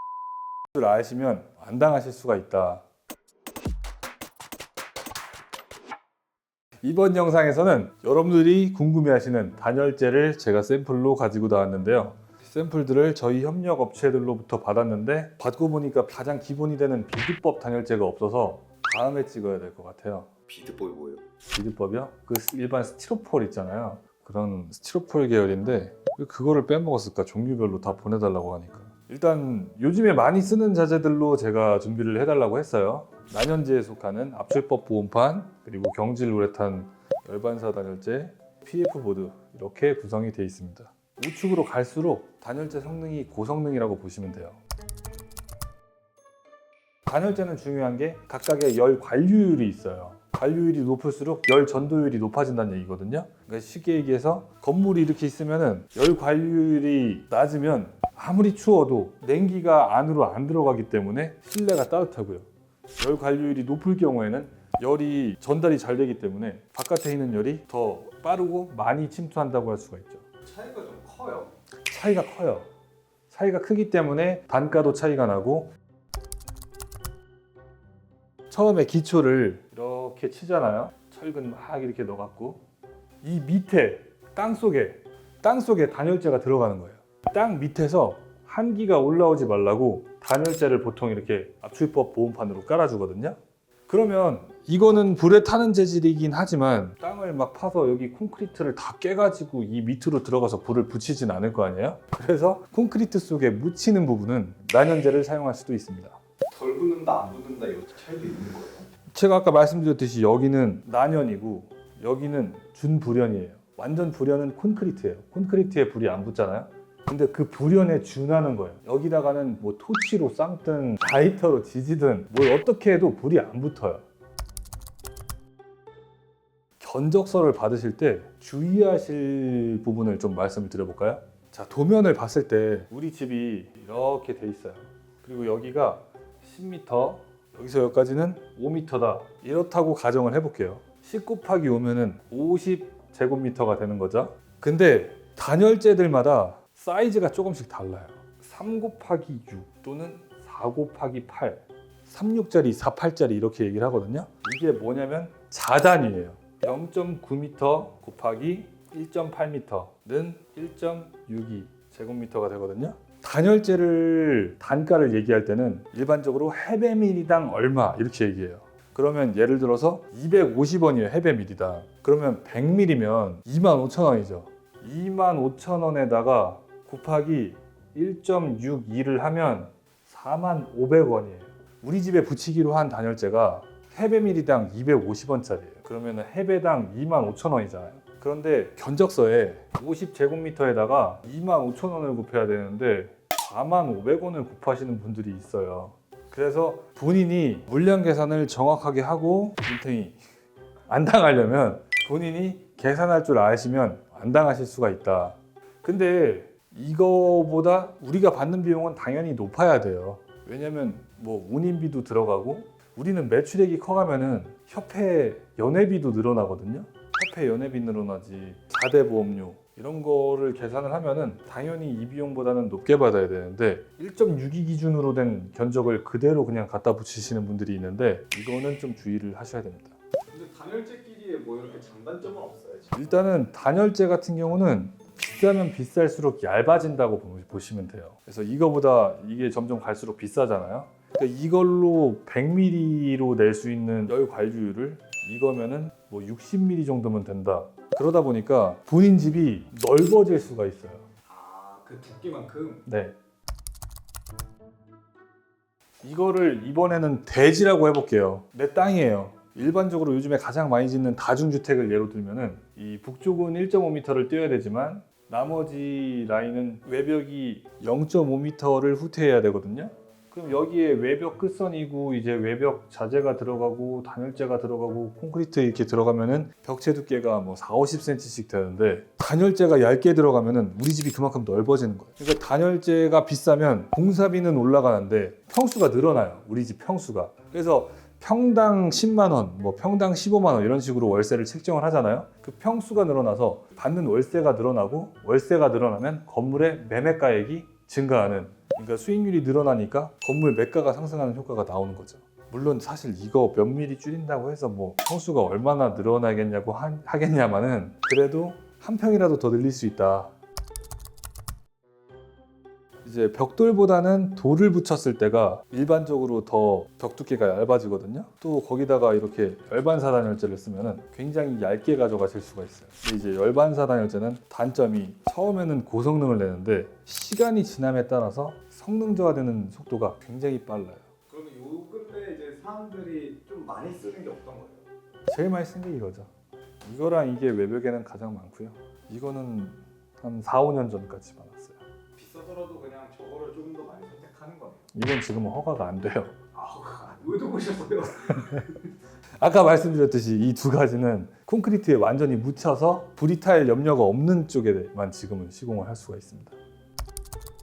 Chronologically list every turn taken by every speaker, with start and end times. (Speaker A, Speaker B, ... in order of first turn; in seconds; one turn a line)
Speaker A: 0.7-2.8
Speaker A: 6.8-20.3
Speaker B: 20.5-21.2
Speaker A: 21.5-44.6
Speaker A: 47.1-62.5
Speaker A: 63.0-70.3
Speaker B: 70.5-71.5
Speaker A: 71.9-72.7
Speaker A: 73.3-75.7
Speaker A: 78.5-82.6
Speaker A: 83.2-106.2
Speaker B: 106.5-108.8
Speaker A: 109.0-124.0
Speaker A: 126.8-200.2
Speaker A: 200.9-229.9
Speaker B: 230.3-233.0
Speaker A: 232.9-251.1
Speaker B: 251.3-252.8
Speaker A: 252.8-253.1
Speaker A: 256.0-310.3
Speaker A: 313.0-331.1
Speaker B: 331.3-334.8
Speaker A: 335.3-336.3
Speaker A: 336.8-341.8
Speaker B: 342.2-344.9
Speaker A: 344.9-346.5
Speaker B: 346.5-348.4
Speaker A: 348.1-348.8
Speaker A: 349.4-356.6